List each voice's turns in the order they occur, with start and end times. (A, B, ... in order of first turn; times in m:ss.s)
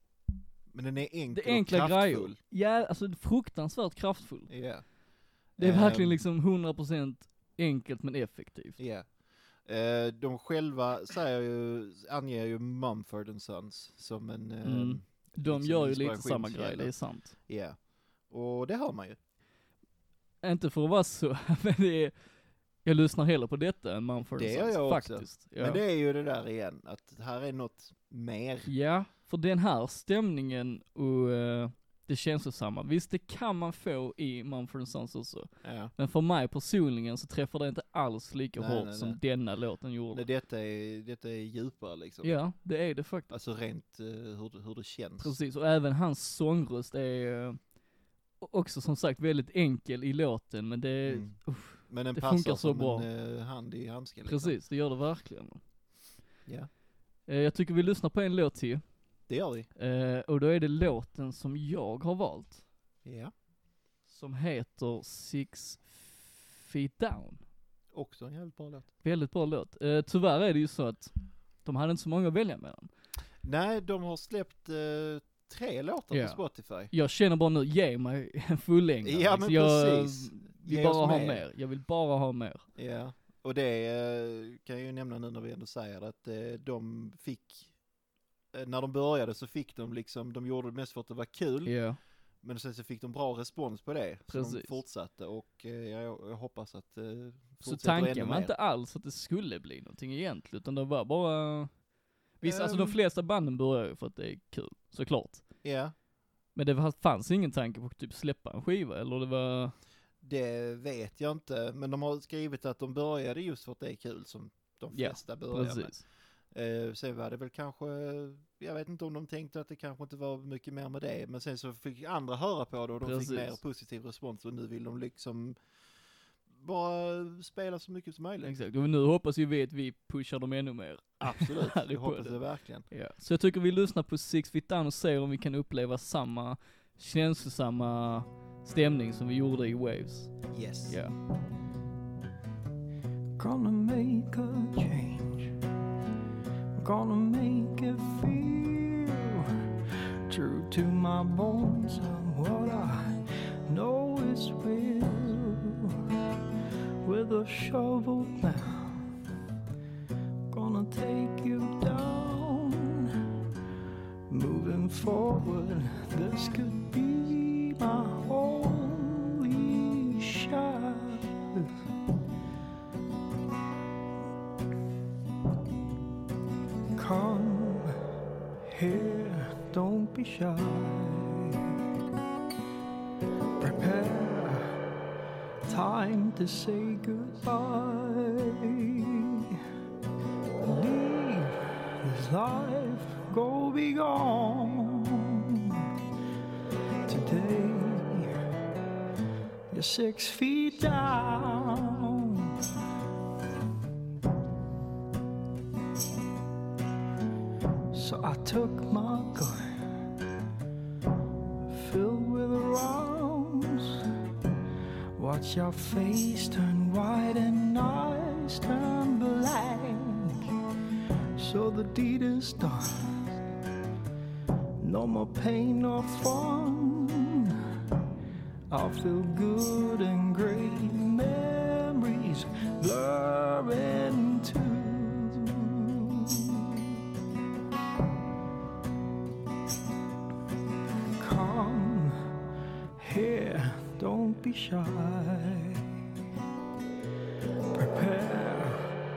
0:00.7-0:02.4 A
0:01.3-0:04.5 B
0:04.5-0:06.2 A
0:05.6-0:08.8 B
0:08.8-0:19.2 A
0:14.6-0:17.4 B
0:20.4-0:22.2 B
0:22.8-0:25.8 B
0:24.2-0:28.7 A
0:28.6-0:40.2 B
0:35.6-0:35.9 A
0:38.6-0:39.2 A
0:40.1-0:42.6 A
0:42.2-0:43.3 B
0:43.3-0:45.4 A
0:45.2-0:47.7 B
0:48.4-0:53.1 B
0:51.0-0:54.6 A
0:54.2-0:55.6 B
0:56.4-0:56.7 A
0:57.2-0:58.9 B
0:59.3-0:59.7 A
0:59.8-1:02.6 B
1:03.0-1:03.3 A
1:04.1-1:07.4 B
1:07.9-1:08.9 A
1:09.0-1:12.9 B
1:13.4-1:16.9 A
1:16.1-1:22.7 B
1:19.0-1:21.4 A
1:22.8-1:27.8 A
1:28.5-1:31.8 A
1:31.6-1:32.0 B
1:32.4-1:38.5 A
1:34.3-1:34.8 B
1:37.6-1:45.5 B
1:42.4-1:43.0 A
1:45.6-1:45.9 A
1:46.5-1:49.8 B
1:50.2-2:05.7 A
1:54.9-1:56.0 B
2:03.0-2:03.6 B
2:06.5-2:08.5 A
2:08.4-2:21.1 B
2:11.2-2:12.9 A
2:20.5-2:21.0 A
2:23.4-2:25.5 C
2:26.8-2:29.5 C
2:30.3-2:33.1 C
2:33.7-2:36.0 C
2:37.0-2:39.0 C
2:40.5-2:43.1 C
2:44.3-2:51.7 C
2:57.0-2:57.9 C
2:58.6-3:01.8 C
3:03.6-3:04.7 C
3:05.6-3:09.6 C
3:10.6-3:15.9 C
3:17.1-3:18.3 C
3:19.7-3:22.6 C
3:27.9-3:29.7 C
3:31.7-3:34.0 C
3:35.2-3:40.5 C
3:41.4-3:42.9 C
3:44.8-3:47.6 C
3:48.7-3:57.0 C
4:01.2-4:02.2 C
4:03.0-4:05.9 C
4:07.7-4:08.8 C